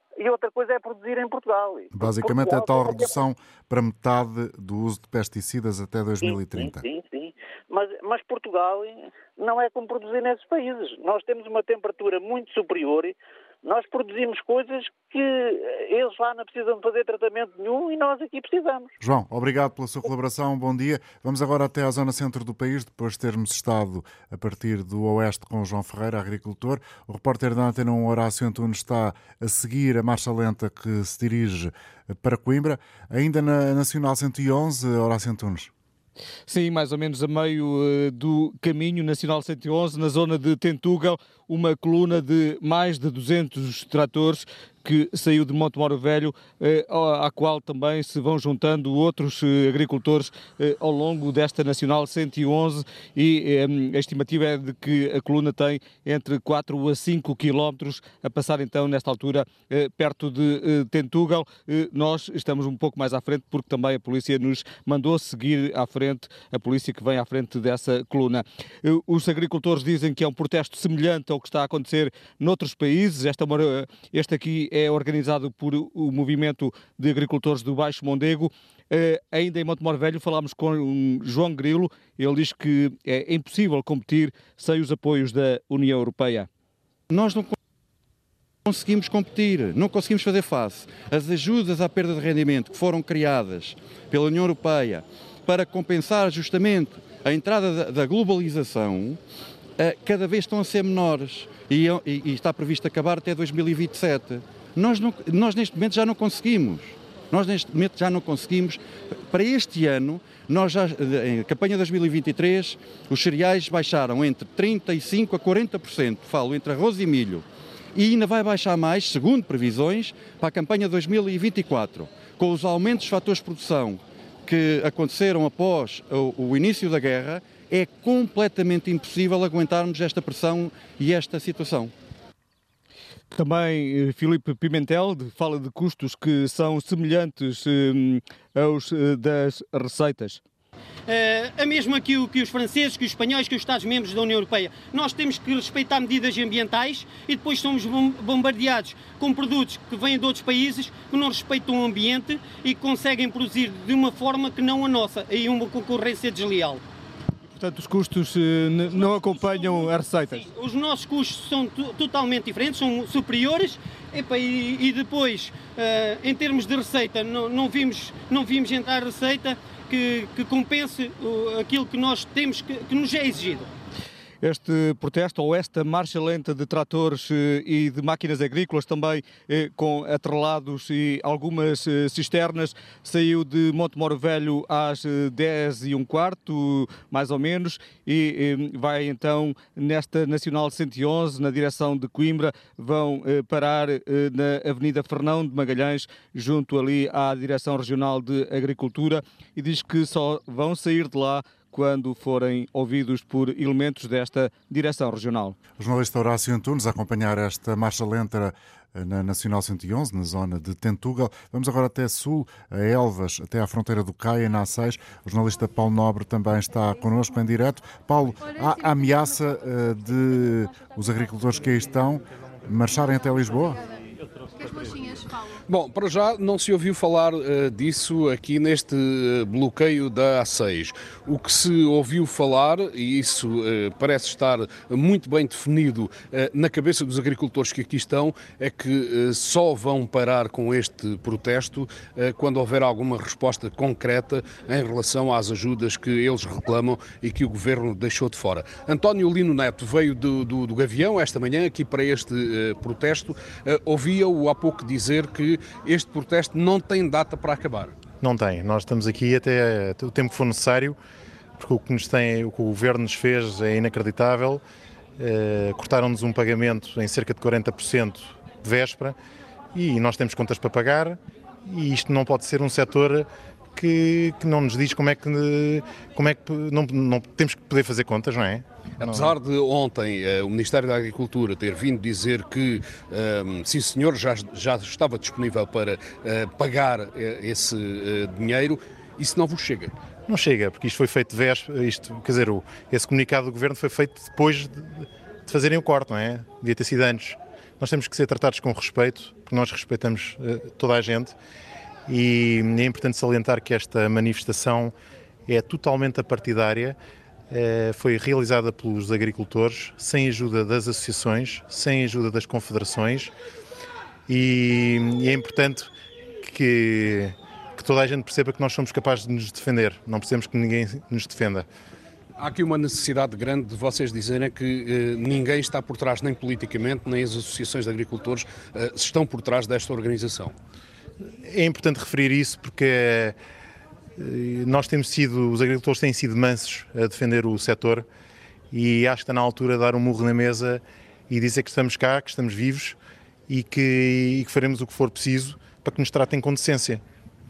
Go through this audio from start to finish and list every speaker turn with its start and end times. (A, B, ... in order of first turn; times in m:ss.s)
0:00.2-0:03.2 A
0:01.9-0:06.8 B
0:06.2-0:18.9 A
0:19.0-0:35.7 B
0:36.5-1:26.5 C
1:27.1-1:27.6 D
1:28.7-1:39.2 D
1:39.8-2:11.9 D
2:13.3-2:20.4 C
2:21.1-2:36.8 E
2:37.5-2:40.5 C
2:38.9-2:53.7 E
2:54.4-3:25.6 C
3:25.8-3:43.8 B
3:45.7-4:18.0 F
4:18.2-4:21.0 G
4:21.6-4:24.6 G
4:25.2-4:29.2 G
4:29.7-4:39.4 G
4:39.0-4:49.9 F
4:50.3-5:01.4 G
5:02.1-5:04.9 G
5:05.5-5:07.0 G
5:07.5-5:13.3 G
5:14.3-5:15.9 G
5:16.4-5:21.7 G
5:22.4-5:30.6 F
5:31.4-5:33.4 G
5:34.2-5:38.0 G
5:38.7-5:43.0 G
5:43.5-5:47.0 G